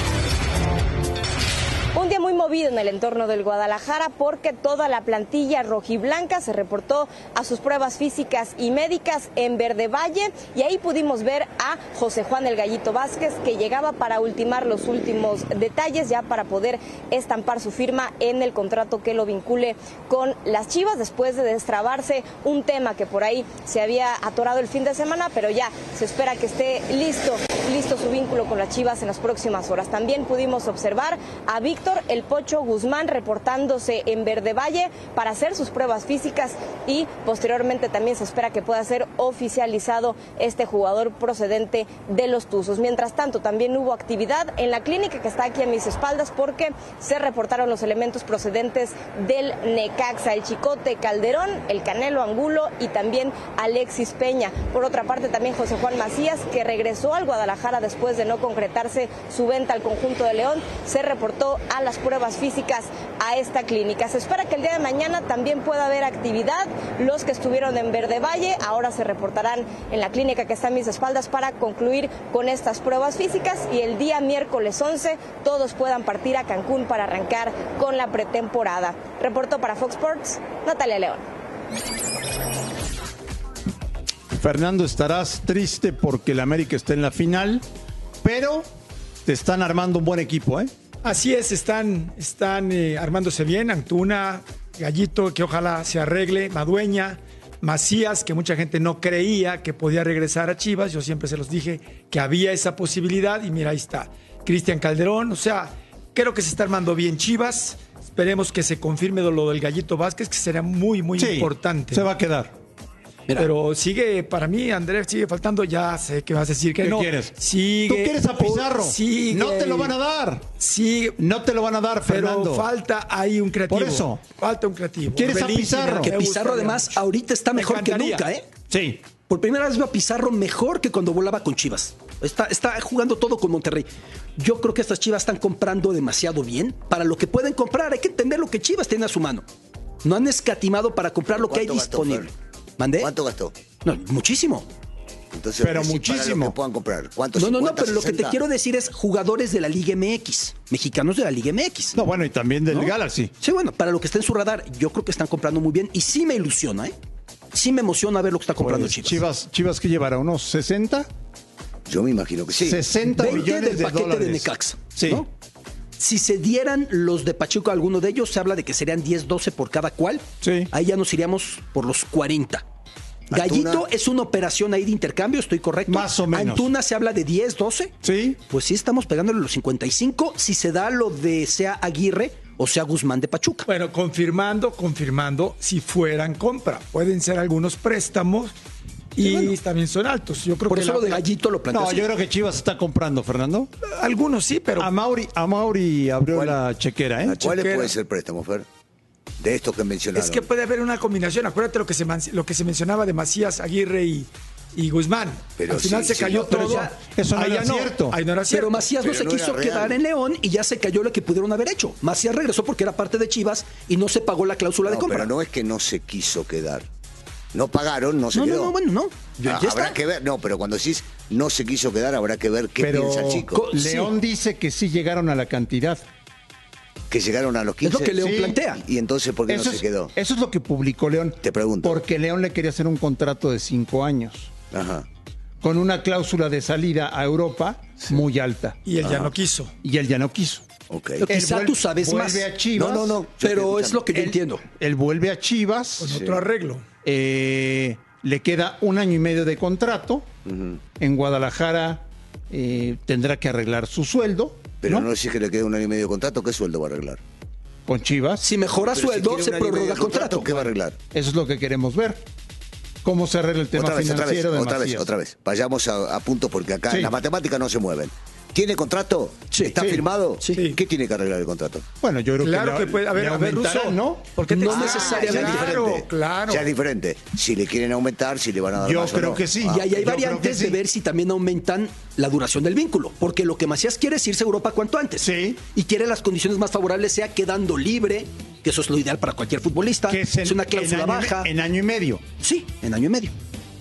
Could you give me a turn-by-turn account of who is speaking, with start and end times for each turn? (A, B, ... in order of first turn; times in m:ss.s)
0:02.0-1:21.2 A
1:24.3-1:27.6 B
1:28.2-1:28.7 B
1:29.2-1:30.7 B
1:31.0-1:52.1 C
1:51.2-1:52.5 B
1:53.4-2:00.0 C
1:56.8-2:00.5 B
2:00.6-2:01.2 C
2:01.2-2:02.7 B
2:02.1-2:07.0 C
2:03.7-2:04.3 B
2:05.2-2:06.1 B
2:06.1-2:08.5 D
2:07.5-2:08.2 C
2:08.7-2:09.0 B
2:09.3-2:19.5 D
2:20.0-2:23.1 D
2:21.3-2:22.3 E
2:23.0-2:23.6 E
2:23.8-2:24.7 D
2:25.3-2:28.4 E
2:25.6-2:26.5 B
2:27.4-2:32.0 D
2:32.0-2:33.3 B
2:32.7-2:37.0 D
2:37.5-2:39.2 D
2:38.6-2:41.1 B
2:41.9-2:43.4 E
2:42.6-2:45.2 B
2:43.0-2:45.3 D
2:46.0-2:52.6 D
2:50.4-2:50.7 B
2:53.3-2:53.9 E
2:53.3-2:57.9 D
2:55.9-2:56.7 B
2:58.0-2:58.4 B
2:58.5-3:03.7 D
3:03.7-3:08.6 C
3:09.2-3:11.2 C
3:09.2-3:09.5 D
3:10.7-3:12.1 D
3:11.7-3:13.7 B
3:13.9-3:14.9 C
3:14.8-3:17.5 B
3:16.3-3:16.6 E
3:17.2-3:18.7 E
3:17.4-3:17.9 C
3:19.4-3:20.5 E
3:20.1-3:28.9 C
3:25.6-3:26.9 E
3:26.5-3:26.8 D
3:26.5-3:28.2 B
3:28.5-3:35.3 D
3:29.0-3:30.0 E
3:34.8-3:36.9 E
3:37.5-3:38.7 E
3:38.3-3:40.0 D
3:39.4-3:43.6 E
3:42.8-3:46.0 B
3:43.5-3:44.1 D
3:47.1-3:50.1 E
3:47.8-3:48.8 D
3:48.2-3:48.6 B
3:49.5-3:54.5 B
3:51.4-3:52.0 E
3:54.7-3:55.1 E
3:55.6-3:59.1 B
3:58.8-3:59.7 C
3:59.0-3:59.3 E
3:59.8-4:00.6 B
4:00.9-4:01.2 E
4:01.2-4:02.5 D
4:01.3-4:03.2 B
4:02.8-4:04.1 E
4:03.4-4:04.6 D
4:04.1-4:06.2 B
4:06.0-4:06.9 C
4:06.1-4:06.4 E
4:07.0-4:10.3 B
4:10.4-4:10.8 E
4:11.0-4:15.1 B
4:14.8-4:17.2 E
4:17.9-4:18.4 B
4:18.4-4:20.7 D
4:18.8-4:21.0 E
4:21.1-4:22.2 B
4:23.0-4:25.1 B
4:23.8-4:31.9 E
4:29.5-4:29.8 D
4:29.8-4:30.0 B
4:30.5-4:30.8 C
4:32.0-4:34.4 B
4:32.4-4:36.7 C
4:34.6-4:35.8 D
4:34.7-4:39.8 E
4:38.8-4:40.8 B
4:39.6-4:51.5 D
4:45.2-4:45.6 B
4:50.1-4:52.2 B
4:52.4-4:53.4 D